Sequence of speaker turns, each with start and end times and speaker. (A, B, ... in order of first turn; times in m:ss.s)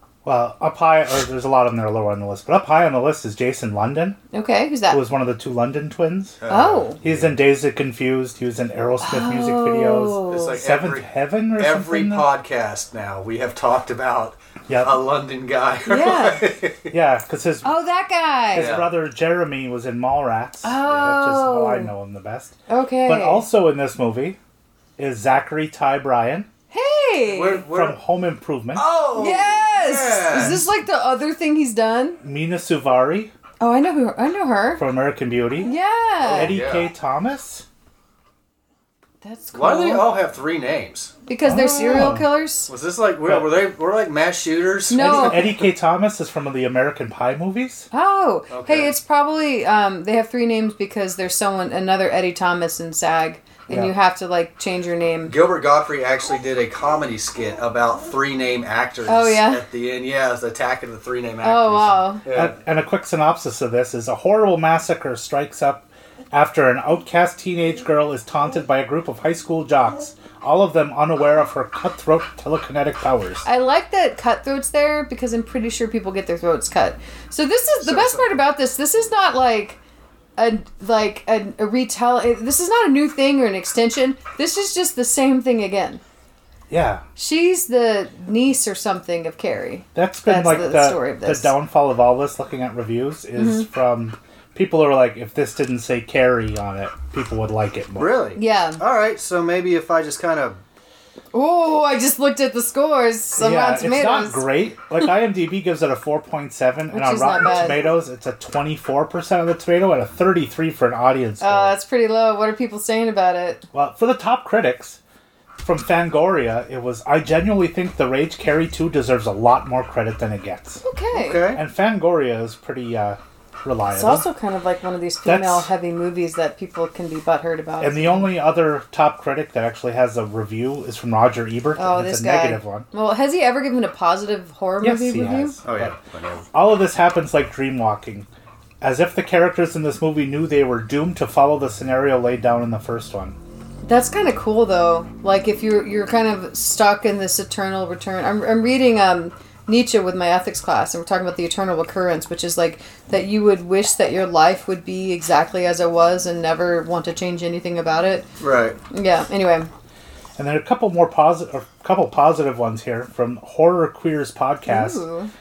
0:00.2-0:04.2 A
0:04.3-0:05.0 B
0:04.9-0:06.4 A
0:06.4-0:07.4 C
0:06.5-0:07.0 B
0:07.0-0:12.3 A
0:09.0-0:10.6 B
0:10.3-0:16.9 C
0:14.7-0:15.0 A
0:15.9-0:16.5 B
0:16.9-0:17.8 A
0:17.6-0:18.7 B
0:18.5-0:24.4 A
0:18.6-0:18.9 C
0:20.6-0:21.9 B
0:22.7-0:23.5 B
0:25.0-0:26.5 A
0:26.7-0:27.6 B
0:27.2-0:28.0 C
0:27.7-0:28.8 A
0:28.8-0:30.7 C
0:29.2-0:32.2 B
0:32.2-0:33.3 A
0:33.6-0:34.8 B
0:34.8-0:37.6 A
0:35.6-0:36.6 B
0:36.3-0:36.9 C
0:39.2-0:40.1 B
0:39.5-0:41.1 C
0:41.3-0:42.7 B
0:41.4-0:42.3 A
0:42.7-0:45.7 C
0:43.2-0:43.5 A
0:44.9-0:45.5 B
0:45.0-0:47.9 A
0:47.9-0:55.4 B
0:48.5-0:48.9 C
0:53.7-0:53.9 A
0:55.3-1:02.6 C
0:59.1-0:59.6 B
1:01.4-1:02.2 B
1:02.3-1:13.4 A
1:13.4-1:19.8 B
1:17.8-1:18.3 C
1:20.4-1:26.0 B
1:26.7-1:27.0 A
1:27.2-1:31.5 B
1:30.0-1:38.2 A
1:33.4-1:33.7 B
1:38.0-1:40.6 C
1:38.4-1:38.8 B
1:41.3-1:44.4 B
1:43.4-1:51.7 A
1:46.9-1:47.9 B
1:51.4-1:53.6 B
1:53.7-1:55.0 A
1:55.6-2:00.8 A
2:00.8-2:01.5 B
2:01.1-2:01.6 C
2:01.5-2:04.2 A
2:03.9-2:08.3 B
2:05.2-2:05.7 A
2:07.8-2:12.9 A
2:11.8-2:15.6 B
2:14.8-2:16.0 A
2:15.6-2:16.5 C
2:16.5-2:18.3 A
2:18.8-2:23.4 A
2:23.8-2:38.3 B
2:38.4-2:38.8 C
2:38.9-2:39.7 B
2:40.4-2:45.0 A
2:44.7-2:45.3 B